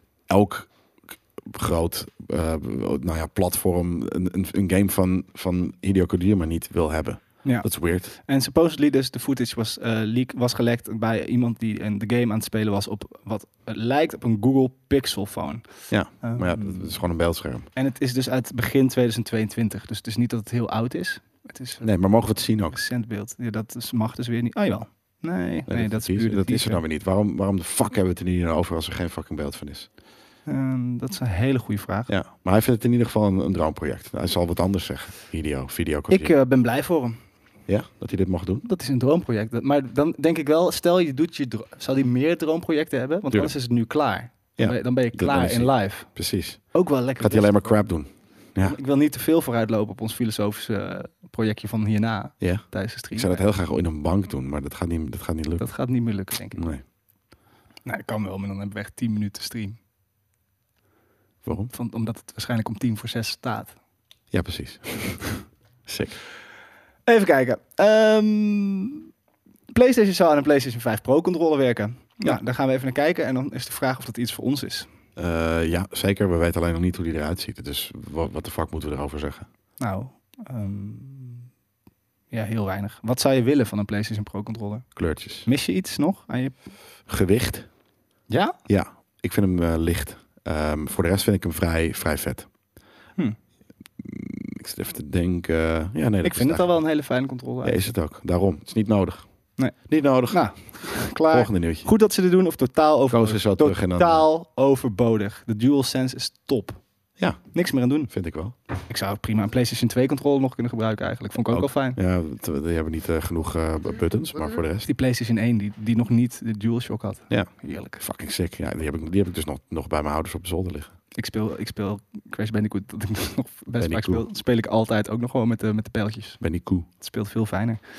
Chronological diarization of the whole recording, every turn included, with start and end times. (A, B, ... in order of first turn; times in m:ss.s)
0:00.3-0:08.1 A
0:07.4-0:17.0 B
0:15.9-0:17.7 A
0:17.7-0:22.2 B
0:21.8-0:22.8 A
0:22.7-0:26.8 B
0:25.7-0:29.9 A
0:30.5-0:32.1 B
0:32.1-0:36.3 A
0:36.1-0:37.2 B
0:37.7-0:38.6 A
0:38.6-0:46.2 B
0:44.6-0:48.8 A
0:46.7-0:47.8 B
0:48.6-0:53.4 B
0:52.4-0:55.7 A
0:55.6-0:56.7 B
0:56.5-0:56.8 A
0:57.8-0:59.8 B
1:01.4-1:01.7 A
1:01.7-1:03.7 B
1:04.3-1:06.2 A
1:07.0-1:09.1 B
1:09.7-1:14.9 B
1:15.2-1:19.5 A
1:19.8-1:21.5 B
1:22.3-1:26.6 B
1:25.0-1:25.5 A
1:27.1-1:27.7 A
1:28.3-1:28.6 B
1:28.7-1:32.5 A
1:34.0-1:36.8 A
1:36.2-1:37.9 B
1:37.6-1:41.9 A
1:39.6-1:46.8 B
1:43.1-1:44.3 A
1:47.2-1:48.5 A
1:47.5-1:48.1 B
1:48.9-1:52.0 B
1:51.5-1:54.9 A
1:54.8-1:58.0 B
1:57.3-2:00.9 A
2:01.2-2:06.4 B
2:03.8-2:04.2 A
2:06.4-2:06.9 A
2:07.0-2:07.8 B